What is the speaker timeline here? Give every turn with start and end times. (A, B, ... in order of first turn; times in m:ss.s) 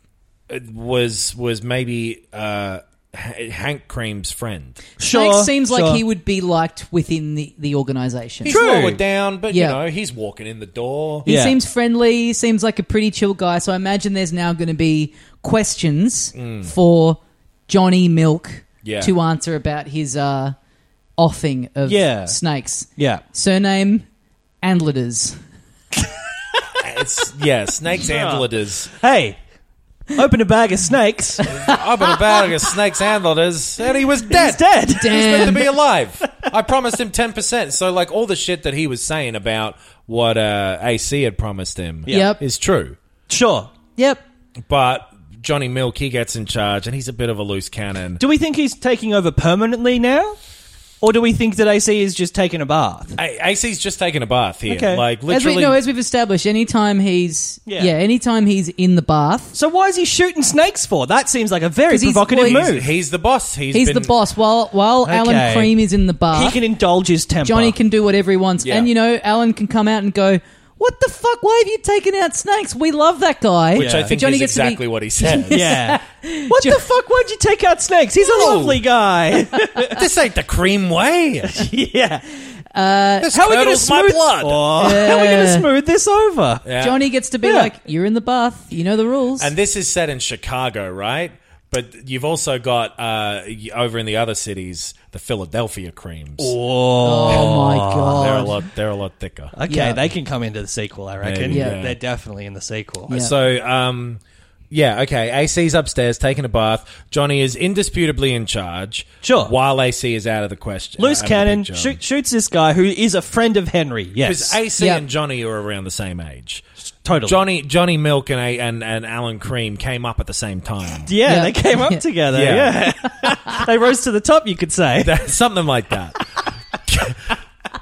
0:00.5-0:04.8 A
0:05.0-0:06.0 B
0:05.0-0:08.6 C
0:08.4-0:11.3 A
0:08.5-0:09.0 B
0:09.5-0:09.8 C
0:11.2-0:20.6 C
0:11.3-0:11.6 B
0:16.4-0:16.7 A
0:18.8-0:19.1 A
0:21.2-0:24.1 C
0:21.9-0:22.4 B
0:23.0-0:23.2 B
0:24.6-0:25.4 C
0:26.8-0:28.9 A
0:28.0-0:29.4 B
0:30.2-0:31.5 B
0:31.5-0:43.0 A
0:34.3-0:35.7 B
0:35.0-0:35.6 C
0:42.1-0:42.4 B
0:42.1-0:42.4 C
0:43.3-0:43.7 B
0:44.7-0:48.2 A
0:48.2-0:50.4 B
0:51.0-0:53.2 B
0:53.2-0:55.8 A
0:54.7-0:55.0 B
0:55.3-0:59.6 C
0:57.7-0:57.9 B
0:59.5-1:02.9 B
1:01.9-1:02.7 C
1:02.4-1:04.1 A
1:03.7-1:06.6 C
1:05.0-1:05.7 B
1:06.3-1:07.8 B
1:07.4-1:16.8 C
1:08.6-1:08.9 A
1:13.8-1:14.2 B
1:13.8-1:15.7 A
1:15.5-1:20.0 B
1:18.2-1:18.8 A
1:19.9-1:21.7 A
1:21.5-1:22.3 B
1:22.7-1:23.3 C
1:23.2-1:24.7 A
1:23.3-1:26.6 B
1:24.8-1:25.7 C
1:26.6-1:27.0 A
1:26.8-1:29.5 C
1:27.4-1:27.7 B
1:29.4-1:36.5 A
1:36.4-1:38.5 B
1:37.0-1:38.5 C
1:38.2-1:39.5 A
1:39.5-1:43.2 B
1:39.7-1:40.0 C
1:41.2-1:42.0 A
1:41.5-1:41.8 C
1:43.1-1:52.0 A
1:49.2-1:49.6 B
1:51.0-1:54.6 B
1:54.2-1:56.6 A
1:54.8-1:55.0 C
1:57.0-1:57.4 B
1:57.2-2:01.1 A
2:01.1-2:05.2 B
2:01.2-2:02.0 C
2:02.3-2:02.8 A
2:05.0-2:06.2 A
2:06.9-2:07.2 A